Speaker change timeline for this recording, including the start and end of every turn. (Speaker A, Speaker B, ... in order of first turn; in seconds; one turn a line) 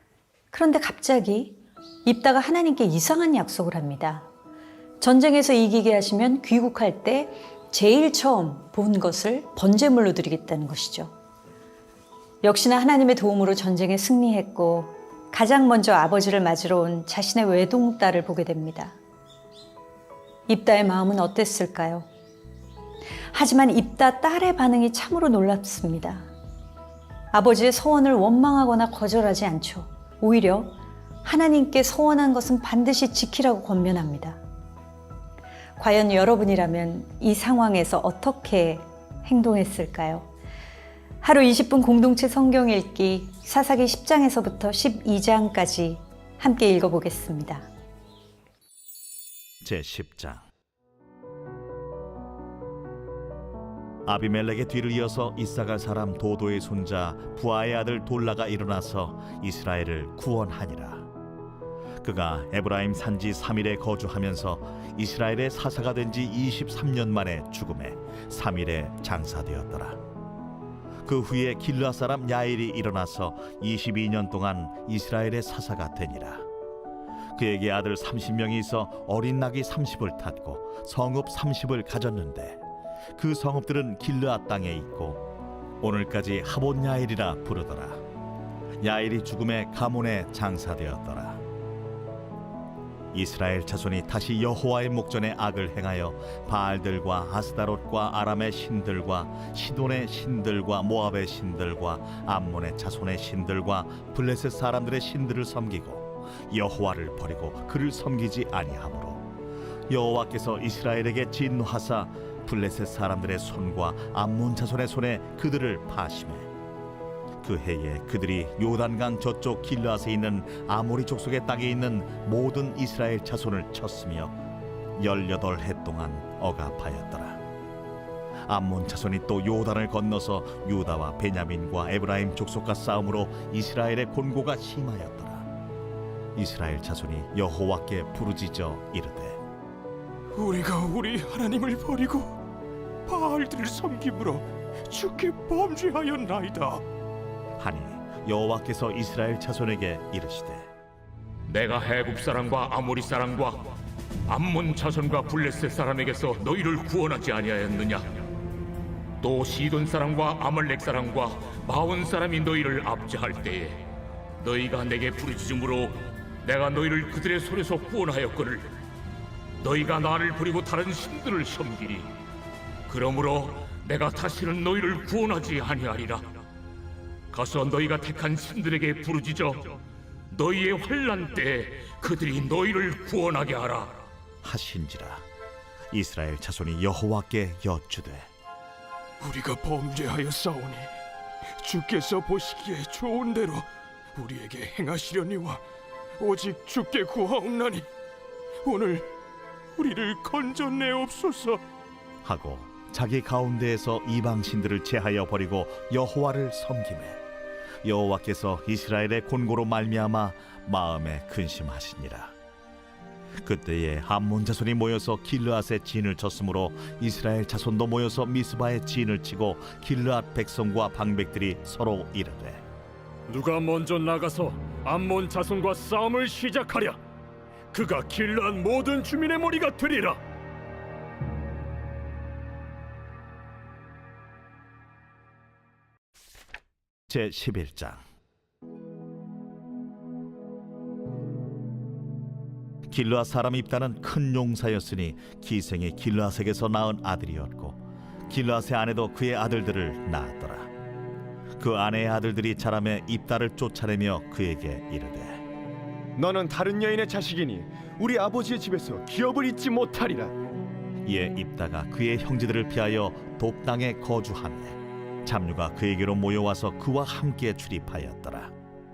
Speaker A: 0.5-4.3
Speaker A: 5.0-11.1
Speaker A: 12.4-19.0
Speaker A: 20.5-22.1
Speaker A: 23.3-26.3
Speaker A: 27.3-34.4
Speaker A: 35.8-40.3
Speaker A: 41.2-47.7
Speaker B: 49.6-50.4
Speaker B: 54.0-61.1
Speaker B: 62.0-70.0
Speaker B: 71.0-76.4
Speaker B: 77.3-82.6
Speaker B: 83.2-85.3
Speaker B: 85.8-88.0
Speaker B: 88.8-91.4
Speaker B: 93.1-109.2
Speaker B: 109.9-116.5
Speaker B: 117.4-124.3
Speaker B: 125.0-127.4
Speaker B: 128.5-135.5
Speaker B: 136.3-139.4
Speaker C: 140.3-142.4
Speaker C: 143.1-146.8
Speaker B: 147.6-150.7
Speaker D: 151.5-153.7
Speaker D: 154.3-158.1
Speaker D: 159.2-163.8
Speaker D: 164.4-168.7
Speaker D: 169.6-172.1
Speaker D: 172.9-176.3
Speaker D: 177.3-179.8
Speaker D: 180.3-184.0
Speaker B: 184.4-185.2
Speaker B: 185.9-188.3
Speaker C: 189.2-190.9
Speaker C: 191.6-195.6
Speaker C: 196.2-197.9
Speaker C: 198.6-199.1
Speaker C: 199.8-201.6
Speaker B: 202.2-207.2
Speaker B: 207.8-212.3
Speaker B: 213.4-222.6
Speaker E: 223.3-227.0
Speaker E: 227.7-230.2
Speaker B: 237.1-238.0
Speaker B: 242.9-250.7
Speaker B: 251.6-255.4
Speaker F: 256.1-260.3
Speaker B: 261.0-268.5